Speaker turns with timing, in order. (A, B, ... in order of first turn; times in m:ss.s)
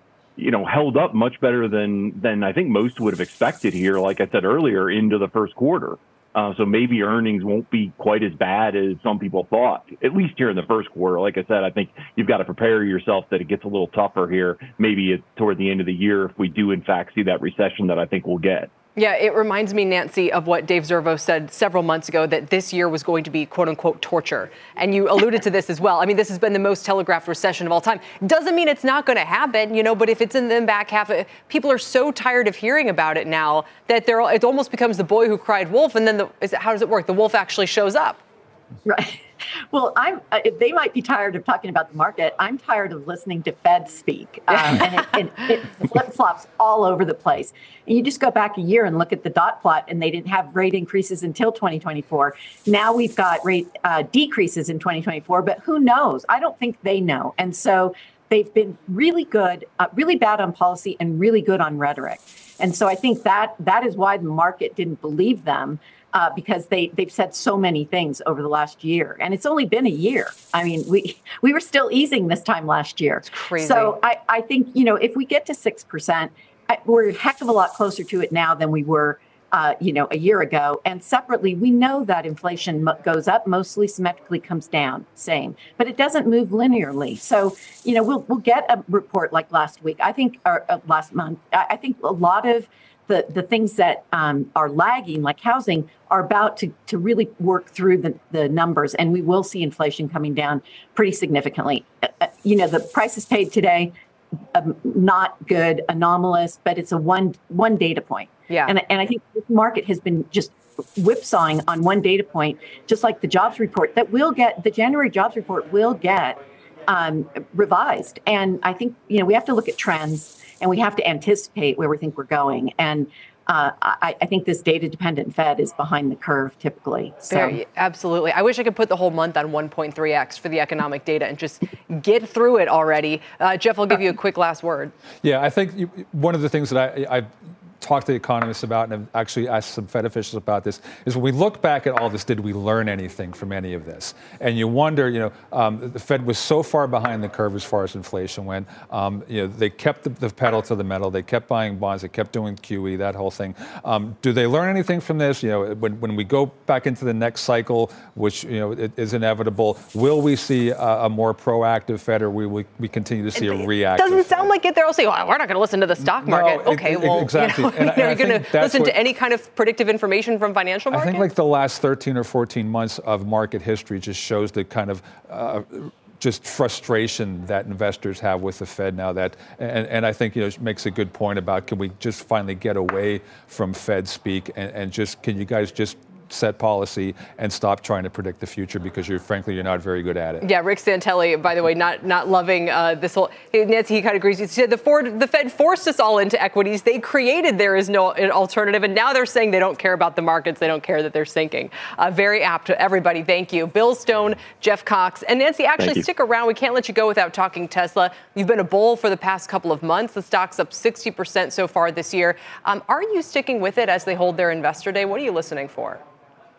0:00.4-0:18.7 A
0:19.0-0:38.2 B
0:38.9-1:43.9 C
0:44.5-0:44.8 B
1:13.2-1:14.0 B
1:44.5-2:07.6 C
1:48.5-1:48.7 B
2:07.2-2:14.9 B
2:15.2-2:17.3 D
2:17.8-2:44.5 D
2:43.4-2:51.3 B
2:46.1-2:49.0 D
2:50.9-3:10.5 D
3:10.4-3:36.0 B
3:25.8-3:26.0 A